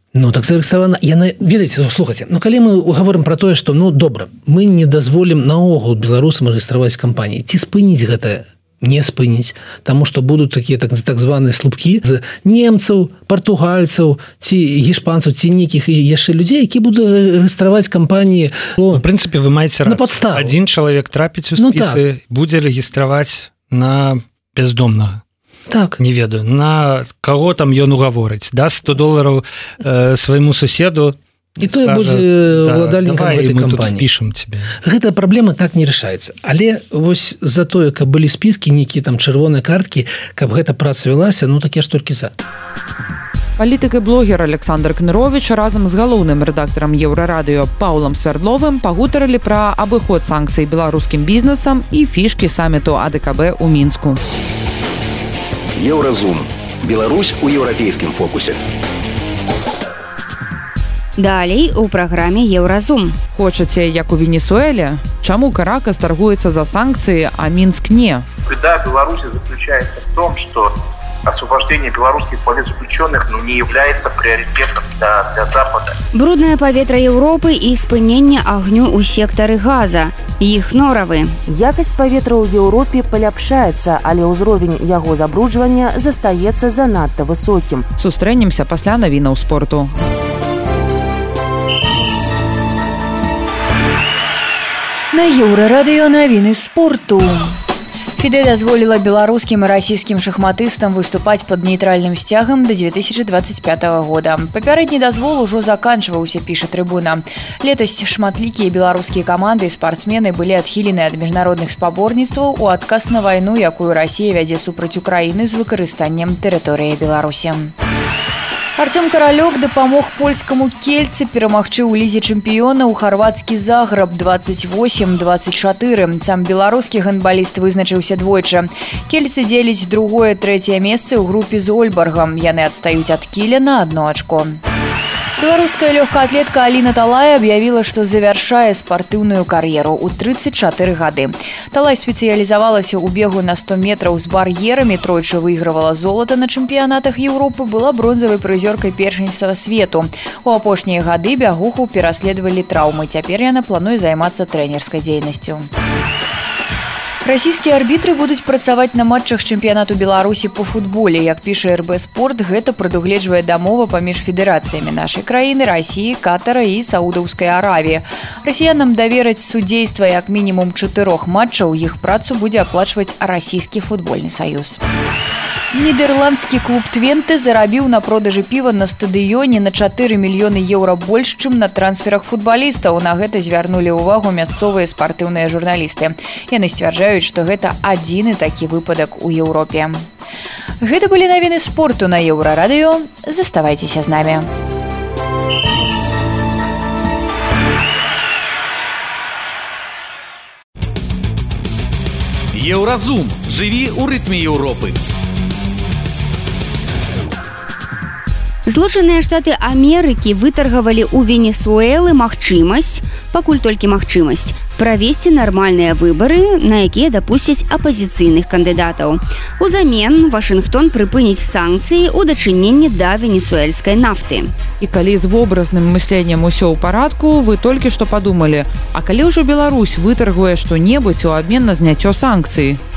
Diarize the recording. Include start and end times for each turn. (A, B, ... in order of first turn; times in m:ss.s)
0:00.1-0:19.0 A
0:18.9-0:25.2 B
0:19.8-0:20.6 A
0:21.6-0:22.0 A
0:25.7-0:26.0 A
0:26.0-0:34.7 B
0:31.6-0:34.0 A
0:34.8-0:42.3 A
0:43.6-0:54.2 C
0:55.8-0:58.6 D
1:01.2-1:03.2 E
1:03.3-1:08.2 C
1:08.4-1:10.7 F
1:11.2-1:16.0 F
1:16.1-1:21.4 E
1:21.4-1:27.8 G
1:28.0-1:29.9 C
1:35.1-1:37.6 H
1:38.2-1:57.7 H
1:58.8-2:14.6 H
2:15.4-2:35.7 H
2:37.2-2:54.8 H
2:55.7-3:10.0 H
3:10.8-3:14.5 H
3:22.5-3:25.0 I
3:28.6-3:44.5 E
3:44.8-3:52.8 C